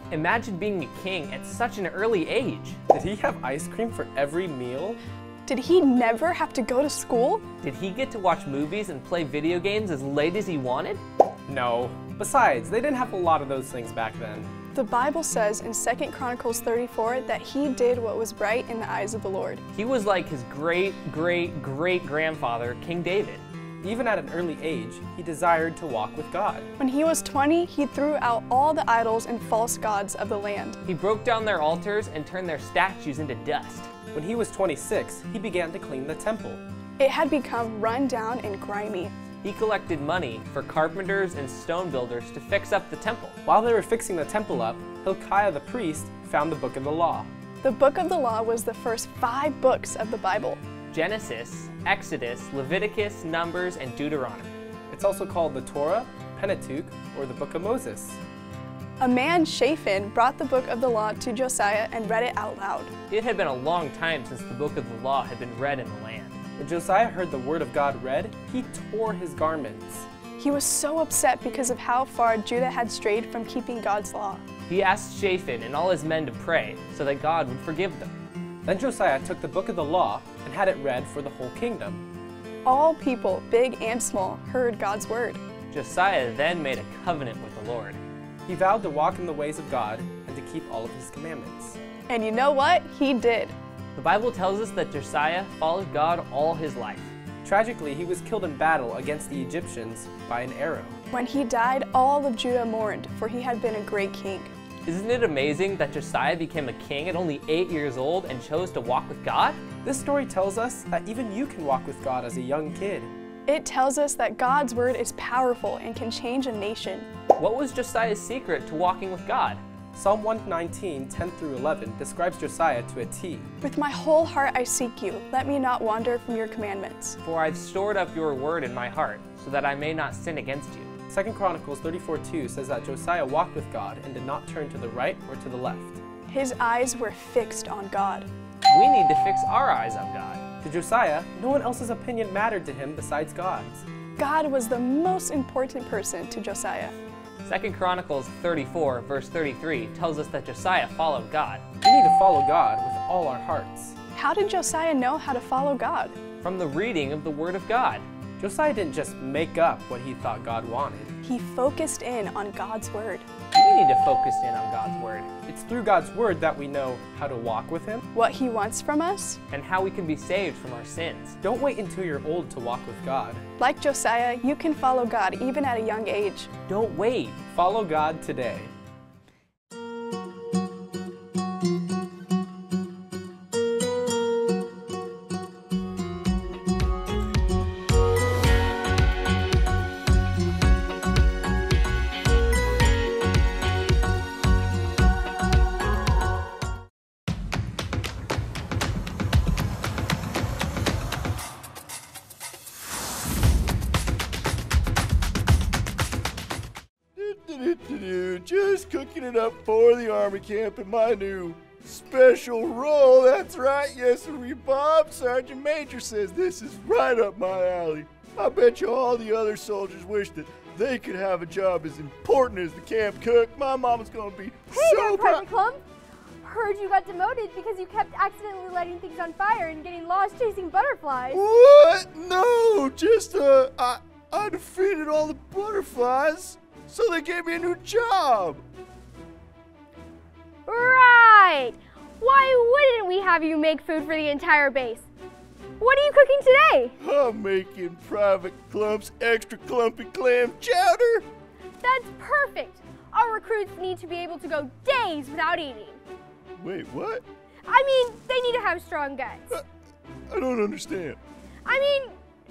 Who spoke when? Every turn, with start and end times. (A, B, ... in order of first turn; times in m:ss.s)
0:00.1-0:02.8 A
0:02.9-0:05.0 B
0:05.5-0:07.4 C
0:07.6-0:11.0 A
0:11.5-0:14.5 B
0:14.7-0:19.6 C
0:19.7-0:23.4 A
0:23.8-0:26.7 B
0:26.8-0:30.8 C
0:30.8-0:33.9 A
0:34.1-0:36.6 B
0:37.0-0:39.1 C
0:39.4-0:43.4 A
0:43.5-0:47.3 B
0:47.6-0:50.6 C
0:50.9-0:54.5 A
0:54.9-0:58.2 B
0:59.0-1:02.9 C
1:03.1-1:06.4 A
1:06.6-1:10.1 B
1:10.4-1:14.4 C
1:14.7-1:18.1 A
1:18.7-1:22.0 B
1:22.7-1:25.4 C
1:25.7-1:28.0 A
1:28.5-1:31.8 B
1:32.1-1:33.5 C
1:34.0-1:37.1 A
1:37.4-1:41.0 B
1:41.1-1:44.5 C
1:44.8-1:49.6 A
1:49.8-1:53.1 B
1:53.5-1:57.1 C
1:57.4-1:59.6 A
2:00.0-2:03.5 B
2:03.6-2:07.2 C
2:07.2-2:10.9 A
2:11.1-2:16.0 B
2:16.3-2:18.3 C
2:18.7-2:20.4 A
2:20.6-2:23.9 B
2:24.2-2:27.0 C
2:27.4-2:31.7 A
2:31.8-2:34.0 B
2:34.2-2:36.2 C
2:36.4-2:38.0 A
2:38.4-2:41.1 B
2:41.2-2:43.3 C
2:43.5-2:45.4 A
2:45.4-2:48.0 B
2:48.1-2:49.4 C
2:49.5-2:51.4 A
2:51.4-2:53.4 B
2:53.6-2:56.5 C
2:56.7-2:57.4 A
2:57.5-2:58.7 B
3:27.2-3:45.4 D
3:44.7-3:45.8 E
3:46.4-3:51.4 E
3:51.3-3:58.6 D
4:00.7-4:05.1 E
4:05.8-4:07.0 E
4:07.0-4:11.3 D
4:11.8-4:16.0 E
4:16.6-4:17.2 D
4:17.7-4:19.5 E
4:20.3-4:21.2 D
4:21.6-4:22.2 E